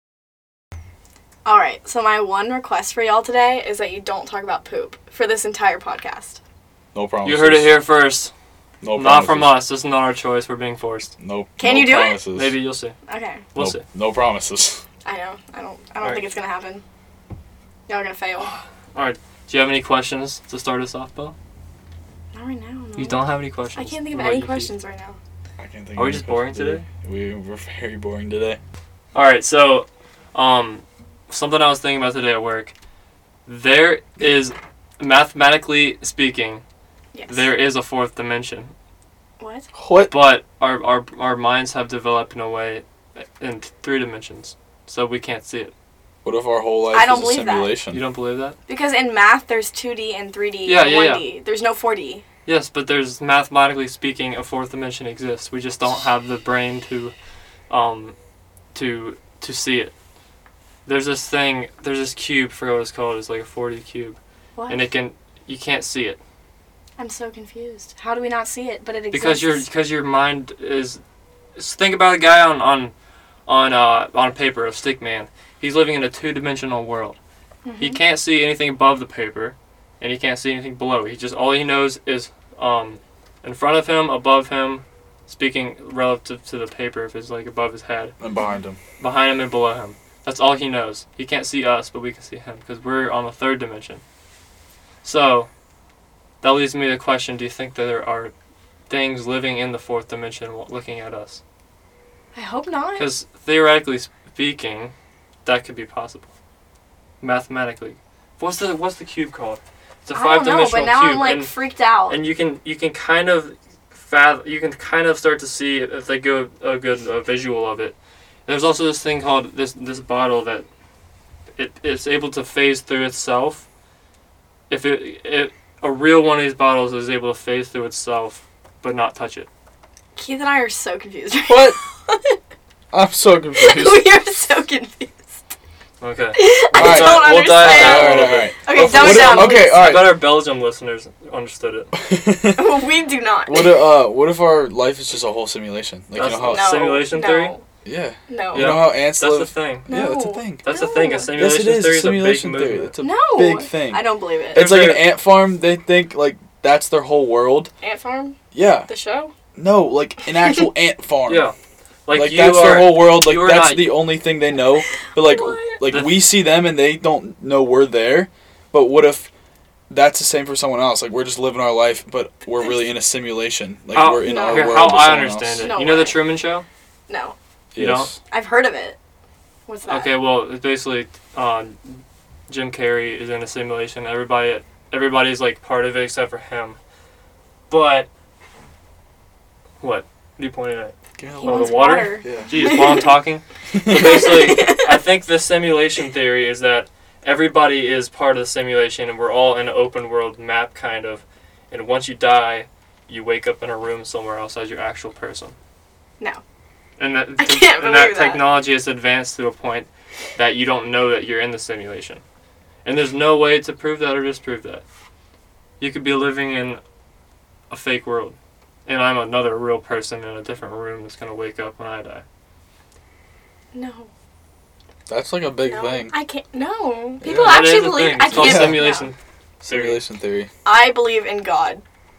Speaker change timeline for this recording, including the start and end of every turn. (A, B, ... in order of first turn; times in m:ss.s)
0:01.4-0:06.4 A
0:06.9-0:07.7 B
0:07.2-0:08.3 C
0:08.8-0:09.6 B
0:08.9-0:11.1 C
0:11.2-0:12.6 B
0:11.6-0:12.2 A
0:12.3-0:13.0 C
0:13.1-0:13.4 A
0:13.5-0:13.8 C
0:13.6-0:14.8 B
0:15.0-0:16.8 A
0:16.0-0:16.3 C
0:17.9-0:18.6 A
0:18.9-0:21.3 C
0:22.3-0:25.2 A
0:23.0-0:24.7 C
0:25.6-0:28.6 B
0:26.0-0:26.8 C
0:29.1-0:32.7 C
0:33.4-0:36.6 C
0:37.1-0:37.5 A
0:37.3-0:38.7 C
0:39.4-0:39.7 A
0:39.7-0:40.1 B
0:40.1-0:45.7 C
0:46.2-0:48.0 B
0:46.9-0:47.7 A
0:47.9-0:48.6 C
0:48.7-0:52.2 A
0:50.6-0:51.3 C
0:52.4-0:57.1 C
0:57.7-0:58.2 C
0:58.7-0:59.9 C
1:00.8-1:06.2 C
1:04.6-1:04.9 A
1:07.0-1:09.6 A
1:09.1-1:11.0 C
1:11.6-1:12.9 C
1:13.5-1:17.2 C
1:17.6-1:18.0 A
1:17.8-1:28.1 C
1:28.2-1:28.8 B
1:29.0-1:34.0 C
1:35.0-1:35.5 C
1:36.4-1:38.3 C
1:38.9-1:41.4 C
1:42.3-1:43.1 A
1:43.0-1:44.9 C
1:45.4-1:46.3 C
1:47.2-1:51.5 C
1:50.1-1:52.2 A
1:52.1-2:00.6 C
2:01.6-2:03.6 C
2:04.7-2:09.5 C
2:10.2-2:12.4 A
2:11.4-2:11.8 B
2:12.9-2:14.0 B
2:13.6-2:15.2 A
2:16.0-2:21.9 C
2:16.3-2:19.8 A
2:16.7-2:20.2 B
2:21.9-2:22.8 B
2:22.5-2:23.8 A
2:23.5-2:26.8 B
2:26.1-2:27.5 C
2:26.5-2:27.6 A
2:27.8-2:30.6 B
2:28.3-2:28.8 A
2:28.5-2:29.8 C
2:29.9-2:31.3 A
2:30.6-2:32.9 C
2:31.3-2:37.7 B
2:33.0-2:34.6 A
2:34.5-2:35.1 C
2:37.8-2:39.3 A
2:38.5-2:38.9 B
2:39.6-2:41.5 B
2:40.4-2:40.6 A
2:41.3-2:41.5 C
2:42.0-2:44.0 C
2:42.1-2:49.3 B
2:45.1-2:45.8 A
2:45.8-2:46.2 C
2:49.9-2:55.7 B
2:53.9-2:56.6 C
2:54.2-2:56.2 A
2:57.1-2:57.4 A
2:57.7-2:58.2 B
2:57.8-2:58.1 C
2:58.3-2:59.0 A
2:59.7-3:00.2 A
2:59.9-3:06.8 C
3:07.7-3:08.1 C
3:09.8-3:25.6 C
3:11.2-3:12.7 B
3:11.4-3:13.1 A
3:13.7-3:14.3 B
3:13.9-3:15.0 A
3:27.0-3:32.2 C
3:27.4-3:28.5 A
3:32.8-3:34.8 C
3:35.8-3:36.8 C
3:37.7-3:42.2 C
3:43.7-3:44.1 A
3:45.1-3:46.1 B
3:45.6-3:49.1 A
3:47.2-3:47.7 B
3:47.3-3:50.0 C
3:48.3-3:49.0 B
3:49.7-3:50.5 B
3:50.6-3:51.8 A